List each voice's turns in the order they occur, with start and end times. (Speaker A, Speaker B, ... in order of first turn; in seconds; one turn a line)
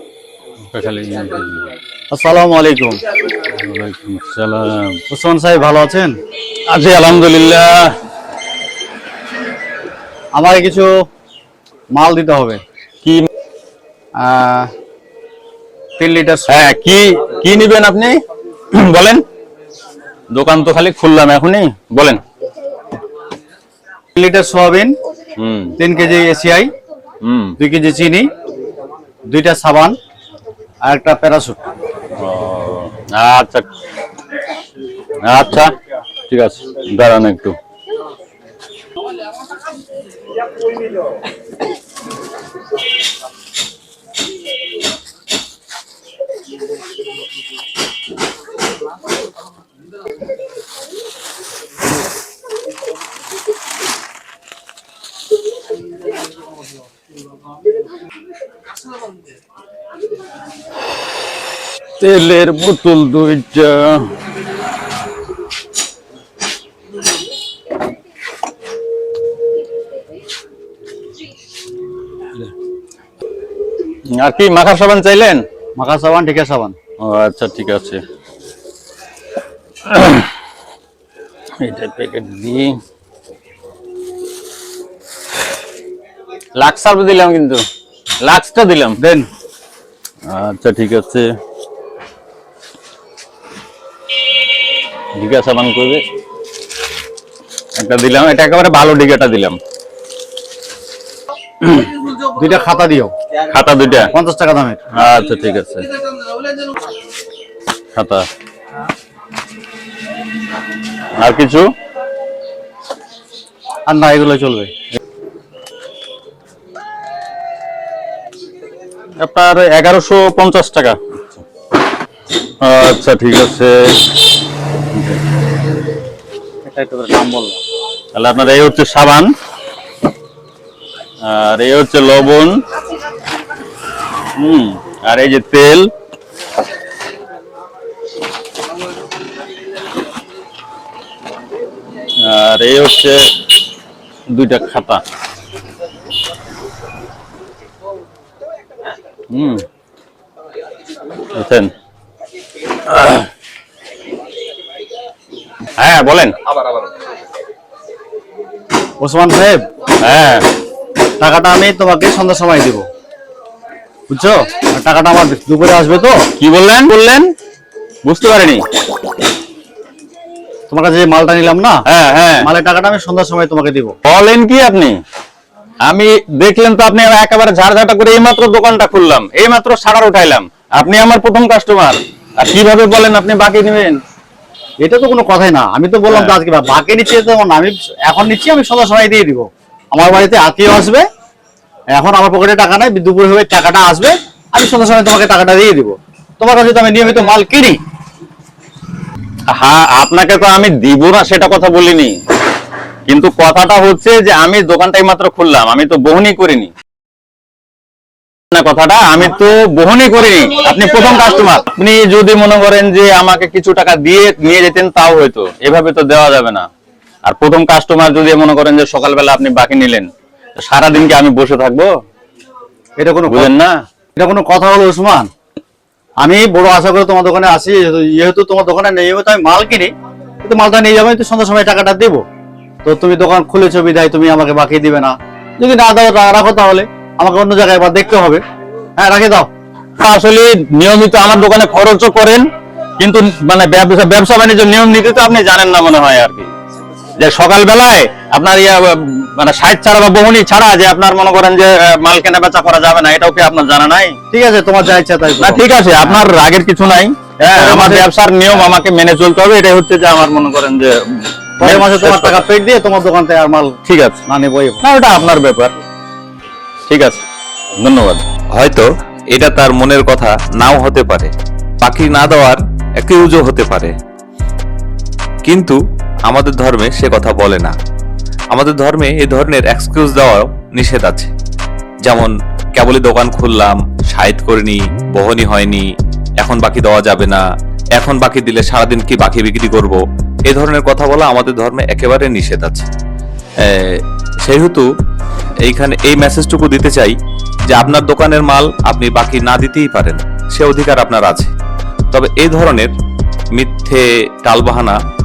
Speaker A: 0.7-1.7
Speaker B: 2.1-3.0
Speaker A: 3.4-5.0
Speaker B: 5.1-6.2
Speaker A: 6.7-8.0
Speaker B: 10.3-10.9
Speaker B: 11.9-12.6
Speaker B: 14.2-14.7
Speaker B: 16.0-16.6
Speaker A: 16.5-19.2
Speaker A: 20.3-22.2
Speaker B: 24.1-25.0
Speaker A: 25.4-25.8
Speaker B: 25.8-26.7
Speaker A: 27.2-27.6
Speaker B: 27.6-28.3
Speaker B: 29.3-30.0
Speaker B: 30.9-31.6
Speaker A: 32.2-33.7
Speaker A: 35.2-35.7
Speaker A: 36.3-37.6
Speaker A: 62.0-64.1
Speaker A: 74.1-75.5
Speaker B: 75.8-76.8
Speaker A: 77.0-78.0
Speaker A: 79.8-80.3
Speaker A: 81.6-82.8
Speaker A: 86.6-87.7
Speaker A: 88.2-89.0
Speaker B: 89.0-89.3
Speaker A: 90.3-91.3
Speaker A: 95.2-96.0
Speaker A: 97.8-99.6
Speaker B: 102.2-103.1
Speaker A: 103.4-104.1
Speaker B: 104.1-104.9
Speaker A: 104.9-105.9
Speaker A: 108.0-108.3
Speaker A: 111.2-111.7
Speaker B: 113.9-114.7
Speaker A: 119.2-121.0
Speaker A: 122.6-124.0
Speaker A: 124.9-125.2
Speaker B: 126.7-127.6
Speaker A: 128.1-129.3
Speaker A: 131.2-132.6
Speaker A: 134.4-135.9
Speaker A: 142.2-143.3
Speaker A: 144.3-145.0
Speaker A: 149.3-149.6
Speaker A: 151.3-151.7
Speaker A: 152.9-153.3
Speaker A: 155.8-156.4
Speaker B: 159.0-159.7
Speaker A: 160.0-160.5
Speaker B: 161.2-162.9
Speaker B: 164.1-166.3
Speaker A: 166.4-167.3
Speaker A: 168.0-168.7
Speaker B: 170.7-171.8
Speaker A: 171.9-172.5
Speaker B: 172.4-173.9
Speaker A: 174.0-175.0
Speaker A: 175.8-184.0
Speaker B: 184.8-191.0
Speaker A: 186.1-186.3
Speaker B: 191.9-197.8
Speaker A: 199.5-202.2
Speaker A: 203.1-206.7
Speaker A: 208.5-216.7
Speaker A: 217.2-221.9
Speaker B: 223.0-223.5
Speaker A: 223.3-223.8
Speaker B: 224.2-225.3
Speaker B: 226.2-232.2
Speaker B: 232.8-238.4
Speaker B: 239.0-239.5
Speaker A: 240.0-242.5
Speaker A: 243.0-246.5
Speaker A: 247.2-254.2
Speaker B: 254.3-256.2
Speaker A: 255.4-262.4
Speaker B: 257.5-258.6
Speaker B: 261.6-263.8
Speaker A: 263.9-264.2
Speaker B: 264.3-264.8
Speaker A: 264.8-265.8
Speaker A: 266.9-267.2
Speaker A: 267.8-268.2
Speaker C: 268.6-271.3
Speaker C: 271.8-273.9
Speaker C: 275.4-277.8
Speaker C: 278.5-281.3
Speaker C: 282.1-285.9
Speaker C: 286.4-287.4
Speaker C: 288.0-292.9
Speaker C: 293.6-294.9
Speaker C: 295.6-297.2
Speaker C: 297.7-301.5
Speaker C: 302.1-302.9
Speaker C: 303.6-305.0